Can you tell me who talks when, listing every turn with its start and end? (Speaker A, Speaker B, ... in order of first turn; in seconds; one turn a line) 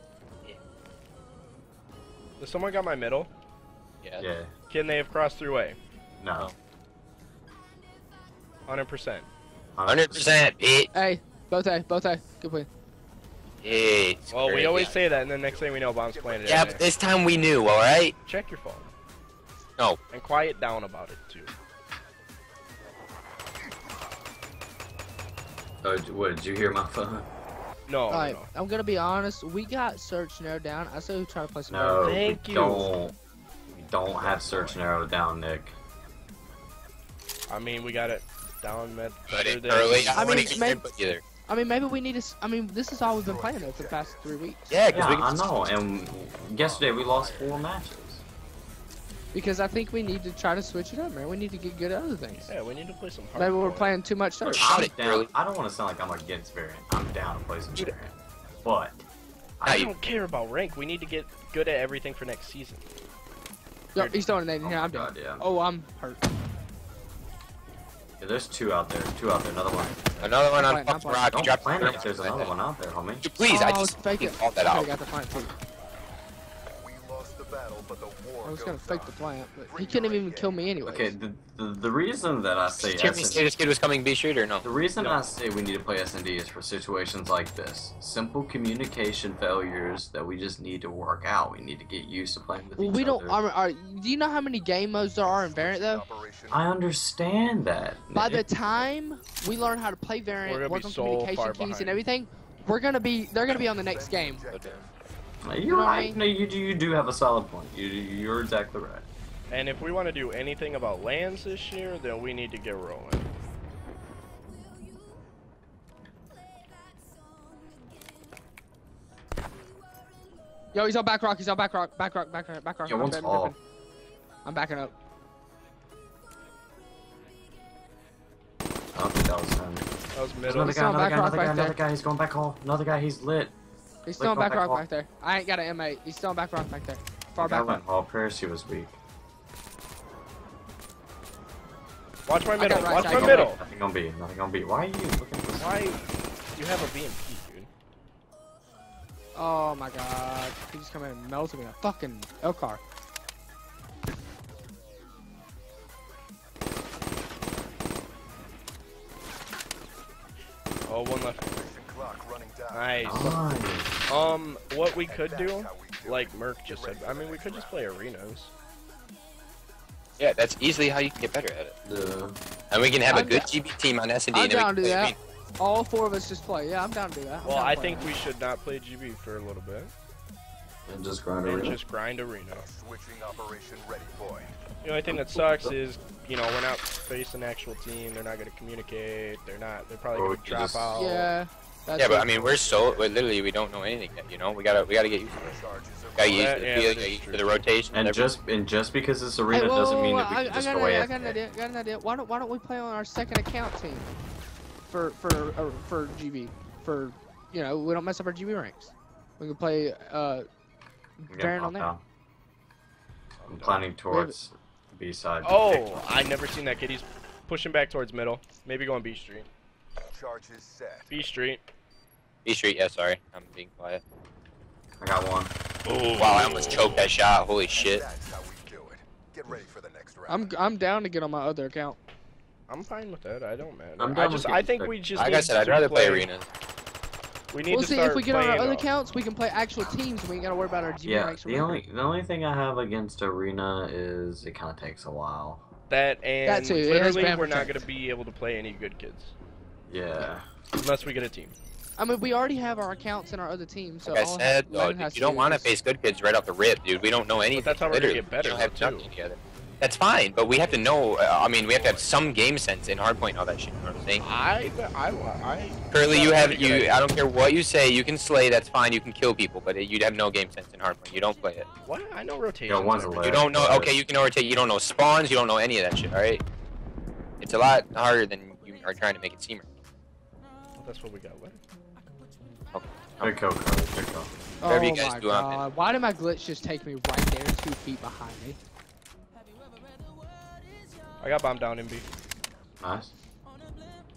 Speaker A: 2.4-3.3
Speaker B: 4.2-4.5
Speaker A: 4.7-5.8
Speaker B: 6.2-6.5
Speaker A: 8.7-9.3
Speaker B: 9.8-10.4
Speaker C: 9.9-10.9
Speaker D: 10.9-12.7
Speaker C: 13.6-15.0
Speaker A: 14.3-16.9
Speaker E: 15.0-17.5
Speaker C: 16.5-18.1
Speaker A: 18.2-18.9
Speaker A: 20.1-21.5
Speaker B: 25.8-27.3
Speaker A: 27.9-28.5
Speaker D: 28.1-32.1
Speaker B: 31.7-35.8
Speaker A: 32.0-32.9
Speaker E: 34.1-34.8
Speaker A: 37.5-40.6
Speaker C: 39.3-41.2
Speaker D: 40.1-40.9
Speaker D: 41.5-44.7
Speaker E: 43.0-44.3
Speaker C: 44.7-45.5
Speaker B: 44.9-48.2
Speaker E: 46.5-47.7
Speaker D: 49.3-52.5
Speaker A: 52.4-54.0
Speaker D: 53.4-54.9
Speaker C: 54.5-55.3
Speaker B: 54.5-59.0
Speaker B: 59.6-59.9
Speaker A: 59.7-62.9
Speaker D: 64.0-66.2
Speaker A: 64.0-64.2
Speaker B: 64.6-65.5
Speaker B: 68.2-70.4
Speaker C: 70.2-72.5
Speaker D: 70.6-71.3
Speaker B: 71.3-73.3
Speaker E: 71.5-72.5
Speaker C: 73.2-74.9
Speaker D: 73.5-75.5
Speaker E: 76.8-80.6
Speaker D: 78.4-81.2
Speaker B: 80.8-83.5
Speaker C: 82.8-84.7
Speaker B: 84.6-93.4
Speaker A: 85.0-85.3
Speaker D: 92.8-96.0
Speaker E: 95.2-96.7
Speaker B: 96.5-98.5
Speaker D: 98.1-104.5
Speaker A: 100.5-102.0
Speaker E: 103.5-104.9
Speaker C: 104.5-104.9
Speaker B: 105.4-109.1
Speaker D: 105.7-106.2
Speaker A: 109.5-113.3
Speaker D: 120.7-123.6
Speaker B: 122.9-123.5
Speaker D: 124.4-124.9
Speaker B: 128.9-129.8
Speaker A: 130.2-130.8
Speaker B: 130.4-133.5
Speaker D: 130.6-131.8
Speaker D: 134.1-137.8
Speaker B: 134.2-134.8
Speaker B: 137.4-139.0
Speaker A: 142.3-143.6
Speaker D: 142.6-143.5
Speaker B: 142.9-146.0
Speaker A: 145.6-146.0
Speaker A: 146.5-147.7
Speaker D: 149.3-152.8
Speaker A: 160.9-161.6
Speaker E: 161.4-163.3
Speaker A: 162.7-163.4
Speaker B: 163.0-164.0
Speaker A: 164.1-168.5
Speaker E: 164.8-168.0
Speaker C: 170.2-171.8
Speaker B: 171.8-172.4
Speaker C: 172.7-175.2
Speaker D: 173.1-173.5
Speaker D: 174.3-178.1
Speaker A: 177.4-179.9
Speaker B: 180.9-181.8
Speaker A: 181.4-182.7
Speaker E: 182.5-184.6
Speaker A: 184.8-191.3
Speaker B: 185.3-185.7
Speaker B: 190.1-191.0
Speaker D: 190.9-192.3
Speaker C: 192.0-195.6
Speaker E: 192.3-193.3
Speaker E: 195.2-197.2
Speaker C: 196.2-198.3
Speaker A: 196.3-197.7
Speaker B: 197.9-201.4
Speaker D: 199.5-204.1
Speaker D: 204.9-210.5
Speaker D: 211.2-211.9
Speaker B: 211.3-212.0
Speaker A: 213.4-213.9
Speaker B: 213.5-215.9
Speaker D: 214.1-214.4
Speaker A: 215.4-219.5
Speaker E: 220.1-221.2
Speaker A: 221.1-221.7
Speaker C: 222.4-224.0
Speaker B: 225.0-225.5
Speaker A: 225.9-227.1
Speaker C: 226.2-228.0
Speaker E: 227.6-230.6
Speaker D: 230.3-232.0
Speaker A: 232.7-236.3
Speaker B: 234.0-235.0
Speaker C: 235.2-236.5
Speaker A: 237.5-238.9
Speaker D: 237.7-241.8
Speaker B: 241.0-245.6
Speaker A: 245.9-249.3
Speaker D: 246.4-247.8
Speaker B: 249.9-250.5
Speaker A: 250.7-251.6
Speaker D: 252.0-255.7
Speaker C: 254.1-264.2
Speaker A: 257.5-259.1
Speaker E: 260.6-262.2
Speaker A: 264.2-267.1
Speaker C: 265.9-271.7
Speaker A: 271.8-273.4
Speaker B: 272.7-274.0
Speaker C: 273.2-276.4
Speaker C: 277.4-279.6
Speaker A: 280.8-281.6
Speaker C: 282.7-283.4
Speaker B: 283.2-284.3
Speaker D: 284.6-288.6
Speaker C: 284.6-285.6
Speaker A: 291.2-292.1
Speaker B: 292.8-293.1